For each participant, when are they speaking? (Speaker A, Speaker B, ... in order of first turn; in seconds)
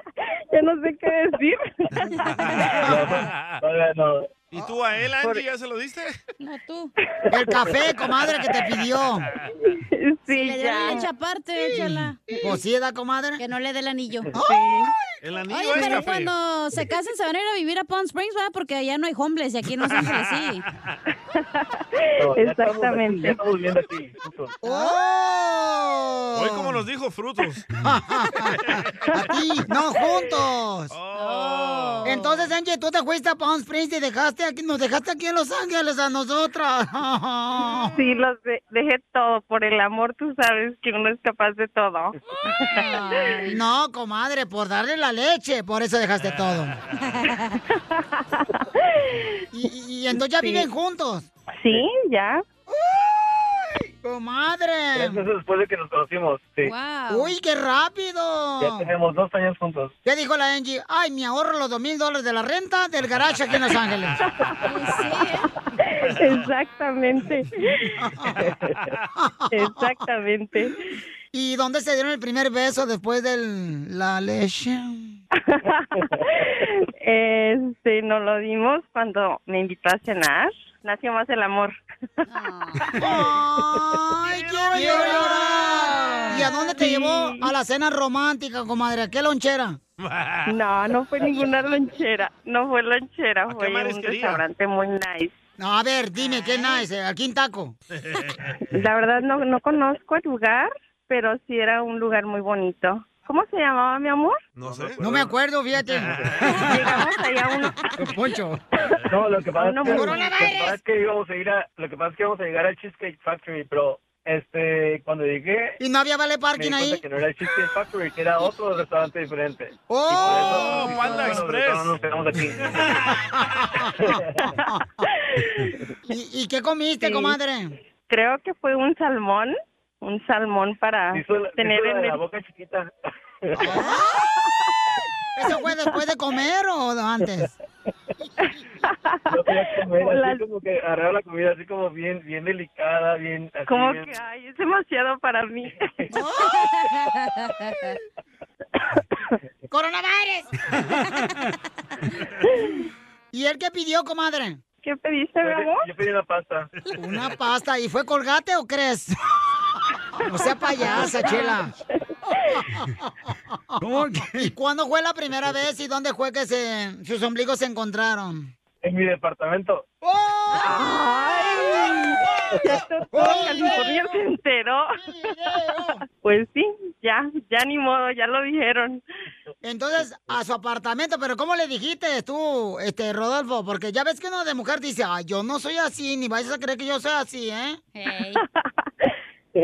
Speaker A: 0.5-2.4, 9.9-11.1, 14.4-14.9, 21.4-21.6, 22.2-23.4, 37.9-43.5, 47.7-48.5, 49.0-49.3, 50.4-50.7, 51.6-52.4, 65.8-67.8, 69.5-70.8, 75.5-81.8, 86.5-87.5, 90.5-95.4, 98.7-104.4, 106.6-107.9, 109.5-110.3, 127.0-127.3, 128.1-132.2, 135.5-135.8, 138.4-139.4, 140.0-140.4, 143.7-145.9, 154.8-155.9, 160.8-161.1, 170.6-172.1, 172.6-175.0, 176.1-179.0, 188.3-188.7
Speaker B: 2.2-3.6, 4.5-6.2, 15.2-16.3, 26.3-27.7, 28.6-29.0, 30.9-32.1, 84.3-86.1, 90.0-90.5, 93.5-94.4, 98.0-98.5, 104.5-105.0, 105.9-106.5, 120.2-121.9
Speaker C: 2.9-4.2, 22.2-24.5, 55.0-56.7, 58.6-59.9, 109.1-115.8, 116.5-122.8, 124.0-124.5, 131.1-132.9, 139.3-144.1, 155.4-156.7, 168.8-169.8
Speaker D: 6.4-6.9, 10.3-12.2, 13.4-14.3, 15.5-20.6, 24.7-24.9, 31.1-32.5, 47.1-47.6, 56.6-57.3, 64.7-65.5, 82.3-82.8, 85.3-86.7, 146.1-147.9, 170.5-170.9, 187.9-188.4
Speaker E: 7.3-9.3, 12.4-13.4, 24.6-26.7, 27.8-30.9, 32.0-37.9, 42.5-46.8, 49.5-51.3, 52.7-55.2, 57.1-58.9, 60.0-64.2, 68.0-68.5, 69.2-69.5, 71.3-75.1, 83.0-89.8, 95.6-97.8, 105.0-106.9, 107.9-108.6, 109.8-110.8, 115.8-117.0, 119.9-121.4, 123.3-124.8, 126.1-127.7, 133.6-134.1, 135.4-137.5, 146.2-146.5, 149.7-151.2, 153.3-154.6, 157.0-159.2, 160.2-161.7, 163.8-168.5, 170.0-174.1, 175.0-176.0, 179.6-187.8